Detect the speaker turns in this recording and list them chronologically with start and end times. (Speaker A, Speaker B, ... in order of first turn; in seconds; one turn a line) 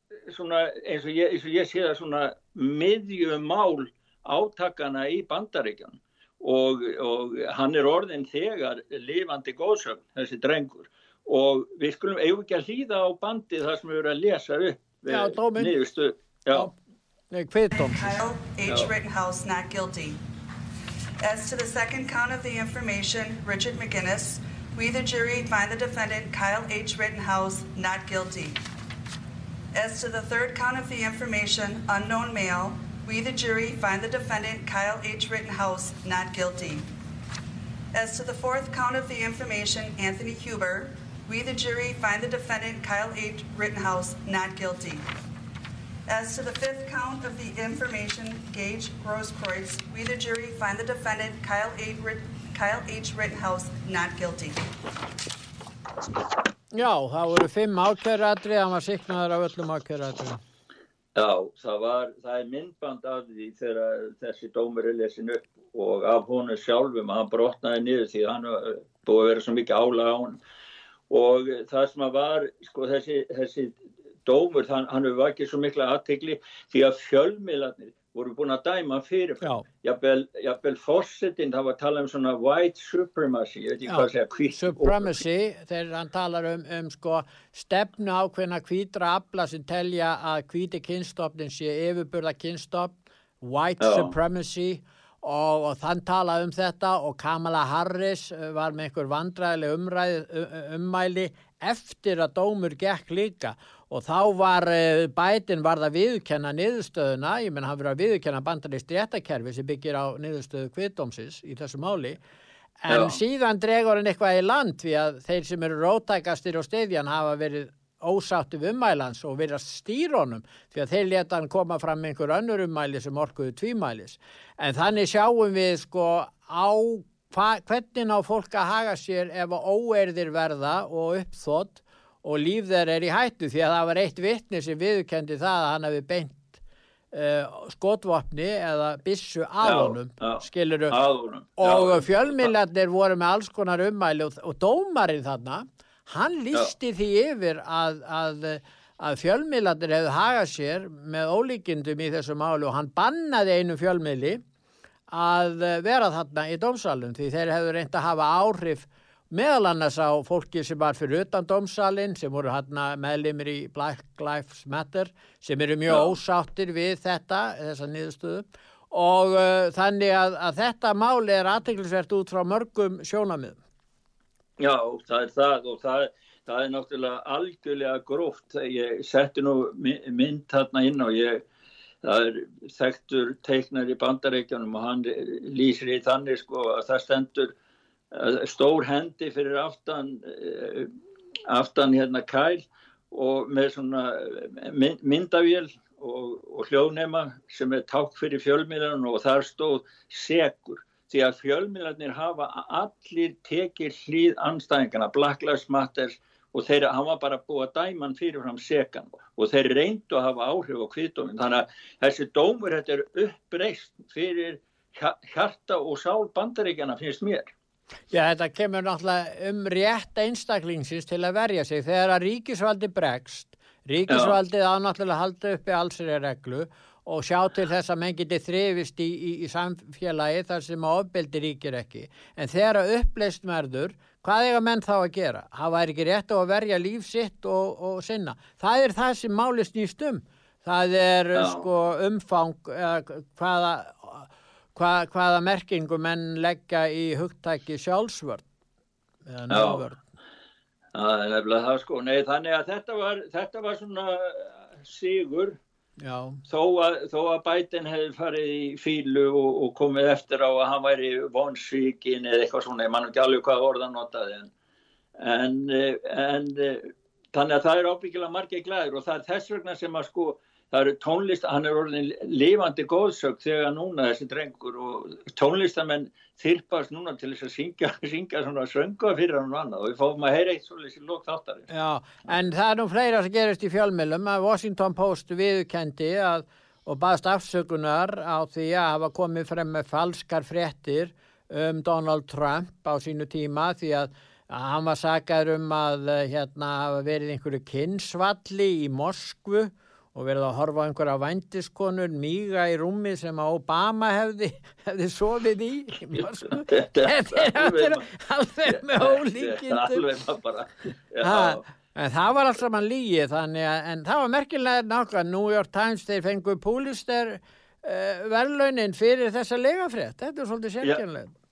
Speaker A: 0.3-16.7
Speaker B: 15.1-15.7
Speaker B: 17.3-18.2
Speaker C: 17.8-20.2
Speaker C: 21.2-28.6
Speaker C: 29.7-36.9
Speaker C: 37.9-45.0
Speaker C: 46.1-54.7
Speaker B: 56.7-60.4
Speaker A: 61.1-70.4
Speaker A: 71.1-85.2
Speaker B: 83.9-112.2
Speaker A: 93.8-94.1
Speaker B: 112.8-136.6
Speaker A: 112.9-113.2
Speaker B: 137.1-141.0
Speaker A: 139.6-142.5
Speaker B: 141.6-154.4
Speaker B: 155.1-173.6
Speaker A: 165.9-166.1
Speaker A: 174.6-181.4
Speaker A: 182.0-187.5
Speaker A: 188.1-190.9
Speaker A: 191.5-217.5
Speaker B: 218.1-248.5
Speaker A: 224.1-224.3
Speaker A: 241.3-241.7
Speaker B: 249.2-250.0
Speaker A: 249.5-249.8
Speaker A: 250.9-255.6
Speaker B: 256.0-256.4
Speaker A: 256.5-264.5
Speaker A: 265.2-281.7
Speaker B: 281.7-310.1
Speaker A: 306.1-308.1
Speaker A: 308.7-311.6
Speaker B: 311.2-321.3